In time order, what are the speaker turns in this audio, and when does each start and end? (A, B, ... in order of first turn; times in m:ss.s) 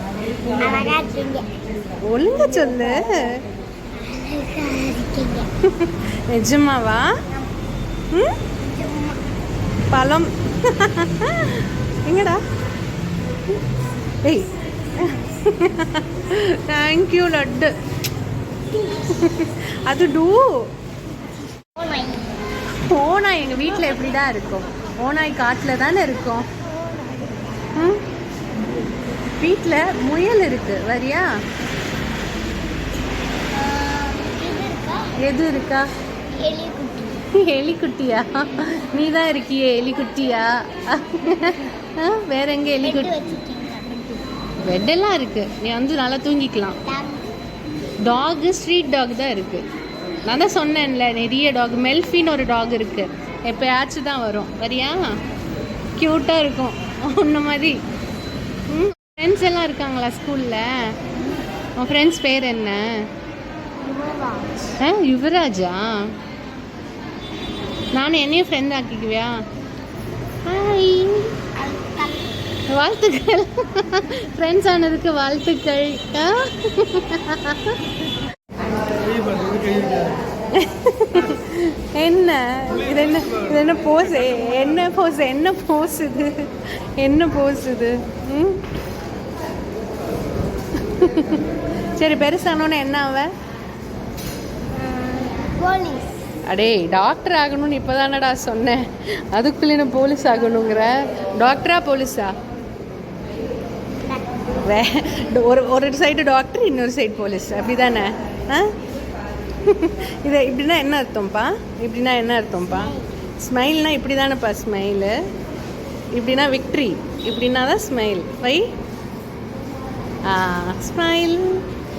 0:00.6-0:01.5 A
0:02.1-0:03.4 B
0:04.0-0:05.5 A
0:05.6-0:07.1 B
0:08.6-0:09.3 A
0:09.9-0:12.4 B
0:14.2-0:17.7 B
0:19.0-0:20.6 B
0:21.8-0:22.5 A
0:22.8-0:26.5 B
0:26.6-0:27.7 A
0:27.8-0:28.0 B
0:29.4-0:31.3 B
0:33.5-0:35.2 A
0:35.2-0:35.9 B
0:36.4-0:37.3 A
0:37.3-0:43.2 B
0:42.8-0:44.3 A
0:44.6-0:46.8 B
0:46.8-0:47.3 A
0:48.0-0:49.6 B
0:50.2-0:55.2 B
0:56.0-0:57.8 B
0:58.7-1:00.9 B
1:01.8-1:02.9 B
1:03.8-1:04.7 A
1:04.8-1:06.2 B
1:07.9-1:09.3 B
1:10.5-1:11.4 B
1:11.6-1:12.4 A
1:12.7-1:17.8 B
1:20.6-1:28.6 B
1:30.8-1:31.4 B
1:32.0-1:33.3 B
1:34.8-1:36.2 A
1:36.5-1:42.3 B
1:44.1-1:44.4 A
1:44.6-1:48.7 B
1:49.6-1:55.2 B
1:52.7-1:53.2 A
1:56.1-1:58.6 B
2:00.3-2:01.7 B